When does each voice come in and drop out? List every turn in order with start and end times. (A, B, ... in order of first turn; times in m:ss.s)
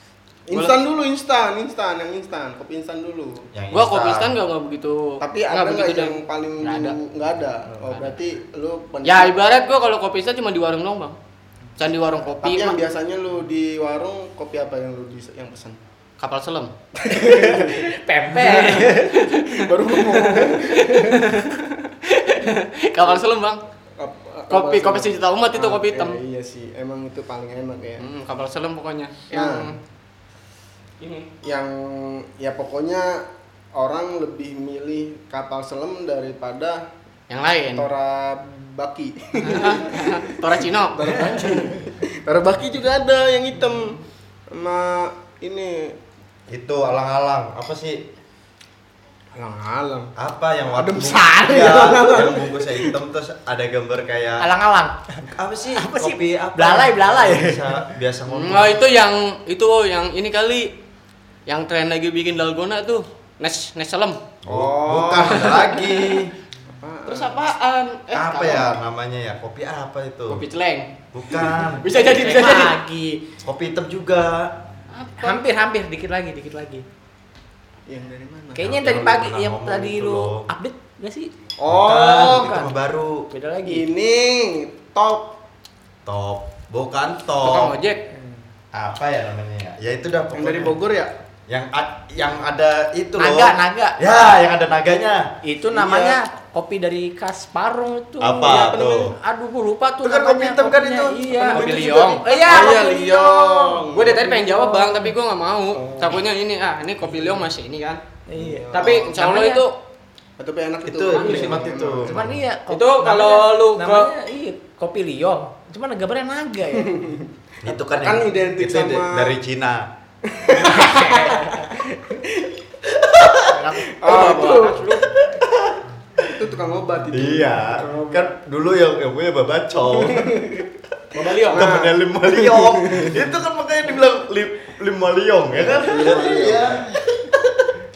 0:00.5-0:03.5 A
0:00.5-0:00.8 B
0:03.5-0:04.3 C
0:03.7-0:07.0 B
0:05.2-0:09.4 A
0:09.0-0:11.2 B
0:11.8-0:12.8 B
0:12.4-0:15.8 A
0:16.2-0:16.7 B
0:16.9-0:21.4 A
0:17.2-0:19.2 D
0:18.4-0:23.6 B
0:24.0-0:28.1 A
0:24.5-0:26.2 B
0:28.0-0:29.8 B
0:29.3-0:29.8 A
0:31.0-0:31.3 B
0:31.4-0:36.8 A
0:37.3-0:37.9 B
0:37.7-0:46.0 A
0:39.4-0:41.5 B
0:46.5-0:48.1 C
0:49.3-0:50.1 A
0:50.2-0:54.5 C
0:50.7-0:52.9 A
0:54.4-0:55.2 D
0:55.3-0:58.8 C
0:55.7-0:57.8 D
0:58.3-1:00.7 B
1:01.5-1:04.2 B
1:04.4-1:06.3 C
1:04.5-1:05.7 A
1:05.3-1:06.1 B
1:06.7-1:07.4 A
1:07.0-1:08.7 B
1:08.1-1:10.4 C
1:10.3-1:12.8 B
1:11.1-1:11.9 C
1:11.9-1:13.2 D
1:13.4-1:14.5 C
1:14.9-1:15.4 B
1:15.2-1:16.8 D
1:17.9-1:18.7 A
1:18.6-1:21.3 D
1:18.6-1:20.5 C
1:21.6-1:22.6 A
1:21.7-1:23.3 C
1:22.2-1:22.7 D
1:23.3-1:23.8 D
1:23.6-1:25.4 A
1:26.0-1:27.8 C
1:27.4-1:28.0 B
1:28.7-1:30.8 C
1:30.3-1:31.1 A
1:31.5-1:35.2 C
1:33.2-1:34.0 D
1:35.4-1:45.1 D
1:35.7-1:36.2 A
1:38.2-1:39.1 C
1:38.4-1:38.8 A
1:40.0-1:42.1 C
1:41.4-1:42.9 B
1:41.6-1:44.3 A
1:43.9-1:48.0 B
1:45.8-1:46.1 A
1:48.3-1:49.6 D
1:48.3-1:49.2 A
1:48.7-1:49.8 B
1:50.4-1:52.3 A
1:50.8-1:52.4 C
1:51.1-1:51.6 B
1:52.0-1:56.9 D
1:52.7-1:54.1 B
1:56.7-1:59.4 A
1:57.6-1:59.9 C
2:00.2-2:02.6 A
2:00.6-2:01.7 D
2:02.9-2:03.6 C
2:03.5-2:04.6 D
2:03.8-2:05.0 A
2:04.0-2:05.1 B
2:05.1-2:06.3 C
2:06.2-2:08.3 A
2:07.1-2:10.6 C
2:09.9-2:10.6 A
2:11.1-2:11.8 B
2:11.4-2:13.3 A
2:11.4-2:17.7 C
2:15.6-2:16.9 A